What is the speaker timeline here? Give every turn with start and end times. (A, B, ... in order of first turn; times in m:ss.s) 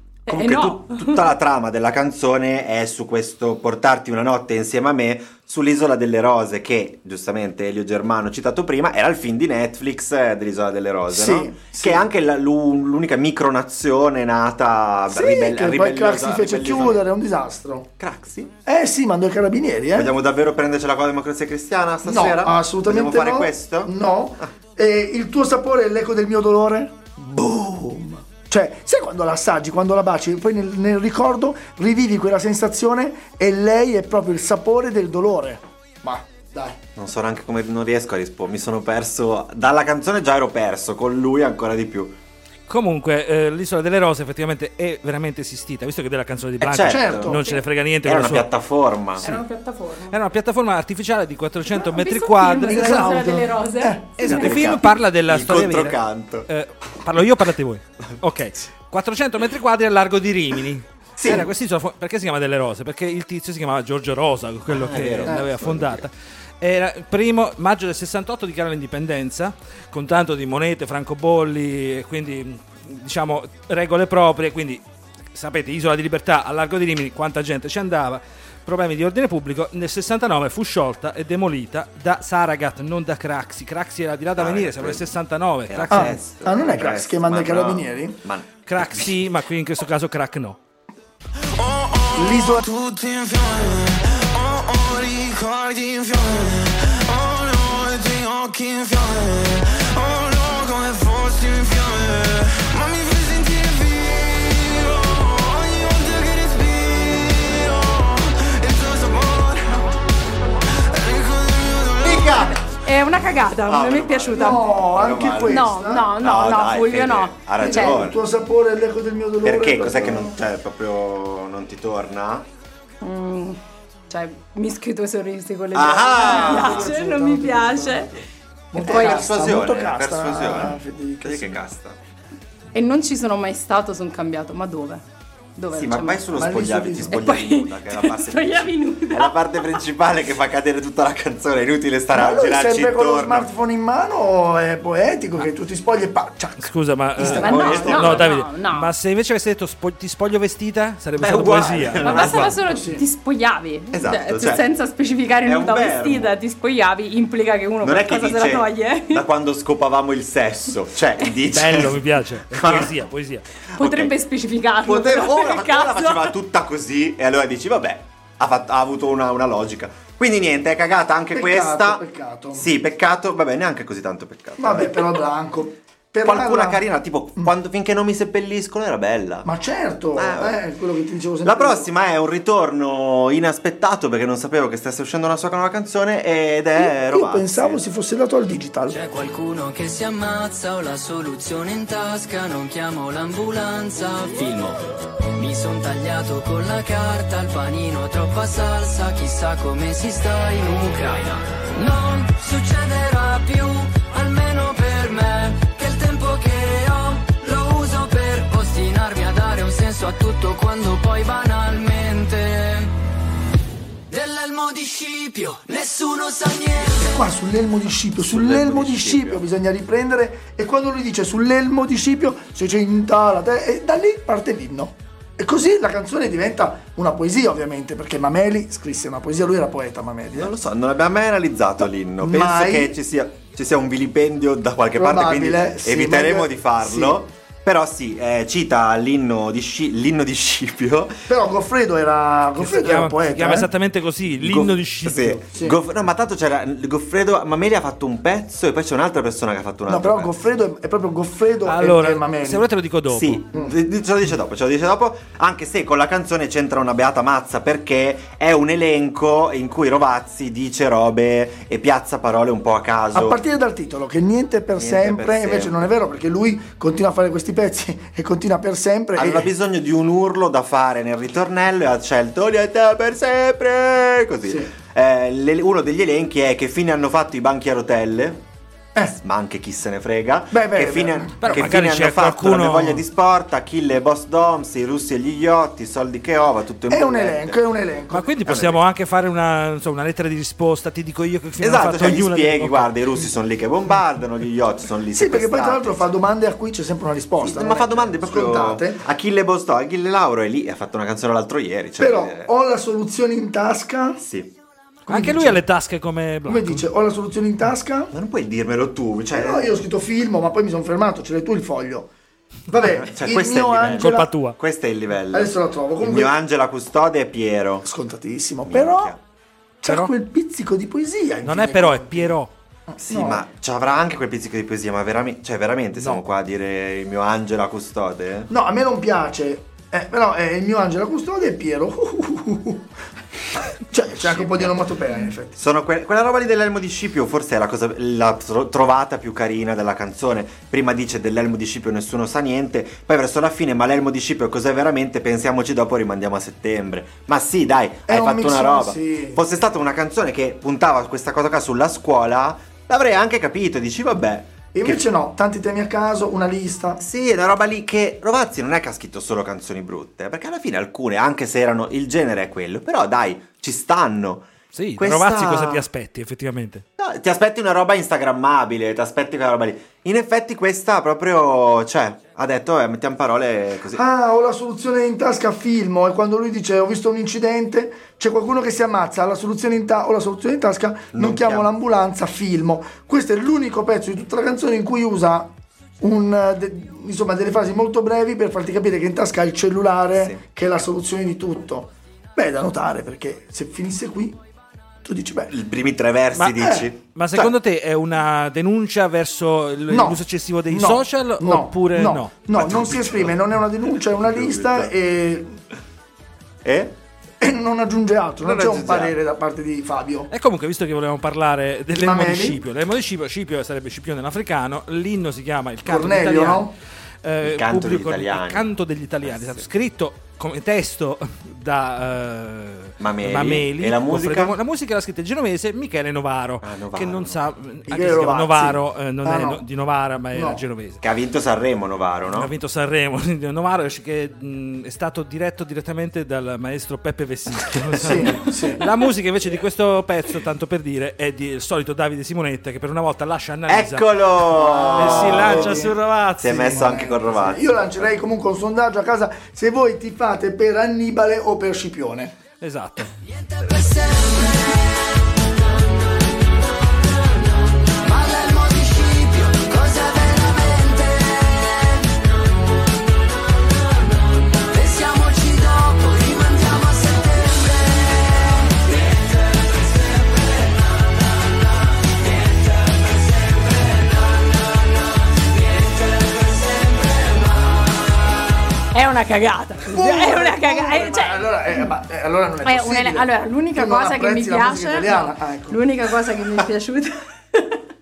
0:00.3-0:01.2 A
0:00.3-0:17.0 B
0:11.1-0:12.0 C
0:15.1-0:17.9 C
0:18.0-0:18.5 B
0:18.6-0:20.1 C
0:19.9-0:24.5 B
0:22.0-0:36.8 C
0:37.0-0:42.1 B
0:42.7-0:48.5 D
0:46.6-0:47.4 B
0:46.9-0:47.4 C
0:48.0-0:49.3 B
0:49.2-0:50.2 A
0:50.1-0:53.1 D
0:51.8-0:54.5 A
0:52.6-0:54.3 C
0:54.2-1:14.8 D
0:54.2-0:56.5 B
1:01.2-1:01.5 B
1:04.7-1:06.1 B
1:15.3-1:26.1 D
1:24.4-1:25.1 B
1:25.7-1:29.1 B
1:25.9-1:28.2 C
1:28.7-1:30.6 D
1:31.5-1:50.0 E
1:32.2-1:32.6 C
1:50.8-1:52.4 E
1:52.0-1:52.6 B
1:52.7-1:54.6 A
1:53.6-1:58.2 B
1:54.3-1:56.1 C
1:55.5-1:58.0 A
1:57.6-2:00.4 C
1:59.4-2:02.4 B
2:03.0-2:03.6 A
2:04.1-2:08.1 A
2:05.7-2:06.9 B
2:06.1-2:08.1 C
2:08.7-2:11.6 C
2:08.8-2:12.0 B
2:08.8-2:09.2 A
2:12.7-2:15.0 A
2:15.6-2:16.2 A
2:15.7-2:23.5 B
2:16.3-2:17.4 C
2:17.1-2:19.8 A
2:22.1-2:28.1 C
2:26.6-2:32.5 D
2:27.2-2:28.9 A
2:27.2-2:28.3 B
2:31.2-2:32.5 B
2:32.0-2:39.2 A
2:32.6-2:33.0 C
2:33.9-2:34.6 B
2:35.4-2:36.3 B
2:37.8-2:43.0 B
2:41.5-2:43.4 D
2:43.8-2:44.1 B
2:43.8-2:46.3 A
2:44.8-2:52.0 B
2:51.3-2:52.7 C
2:52.5-2:55.1 B
2:54.6-2:56.8 C
2:56.2-2:59.5 B
2:59.4-3:01.9 C
3:00.2-3:00.6 B
3:01.4-3:07.8 B
3:06.8-3:09.0 C
3:08.9-3:14.8 F
3:15.3-3:32.9 F
3:34.1-3:37.2 F
3:37.0-3:50.5 C
3:38.2-3:39.4 B
3:50.3-4:01.2 B
3:52.2-3:53.0 C
3:55.0-3:57.2 C
4:01.3-4:03.7 C
4:02.6-4:05.4 D
4:04.4-4:10.3 B
4:09.9-4:12.6 C
4:11.6-4:13.4 D
4:13.1-4:23.4 B
4:23.1-4:29.5 C
4:24.8-4:25.8 B
4:29.1-4:38.4 B
4:39.0-4:47.6 B
4:40.5-4:41.7 C
4:41.4-4:43.0 D
4:46.9-4:48.3 C
4:48.1-4:52.9 D
4:48.4-4:48.8 B
4:51.6-4:56.0 B
4:55.1-4:59.0 C
4:57.4-5:02.5 B
5:02.0-5:04.2 C
5:04.2-5:04.5 B
5:05.1-5:06.8 D
5:05.1-5:05.6 C
5:06.5-5:08.1 C
5:08.1-5:09.7 B
5:09.3-5:12.1 C
5:12.7-5:14.3 C
5:12.9-5:17.9 B
5:13.9-5:14.6 D
5:15.3-5:16.3 C
5:17.8-5:19.1 C
5:18.6-5:19.2 B
5:19.8-5:22.4 C
5:19.9-5:20.1 D
5:21.4-5:22.5 D
5:22.9-5:23.4 C
5:23.0-5:28.5 B
5:28.5-5:32.9 C
5:33.8-5:35.6 C
5:34.2-5:34.7 B
5:35.6-5:55.0 B
5:48.1-5:49.4 C
5:54.7-5:57.0 C
5:57.0-6:05.8 B
6:04.7-6:06.8 D
6:07.0-6:14.0 B
6:13.9-6:34.4 C
6:21.1-6:21.7 B
6:30.1-6:30.4 B
6:35.0-6:35.5 C
6:35.5-6:37.5 B
6:36.4-6:42.5 D
6:39.9-6:45.6 C
6:42.6-6:43.3 B
6:44.2-6:44.9 B
6:46.6-6:46.9 B
6:47.4-6:50.3 C
6:48.4-6:49.1 B
6:50.3-6:56.7 D
6:52.0-6:52.6 C
6:55.8-6:56.7 C
6:57.2-7:11.0 D
6:57.4-6:58.6 B
6:59.2-6:59.6 B
7:03.0-7:04.6 B
7:06.6-7:07.4 B
7:07.9-7:09.6 C
7:10.3-7:10.6 C
7:11.0-7:12.5 B
7:12.3-7:24.1 D
7:18.0-7:18.8 C
7:23.7-7:28.1 B
7:24.5-7:32.3 C
7:25.0-7:26.8 D
7:32.6-7:33.1 D
7:33.3-7:42.3 F
7:43.2-7:57.9 F
7:58.9-8:01.4 A
7:59.9-8:05.8 C
8:02.6-8:07.8 A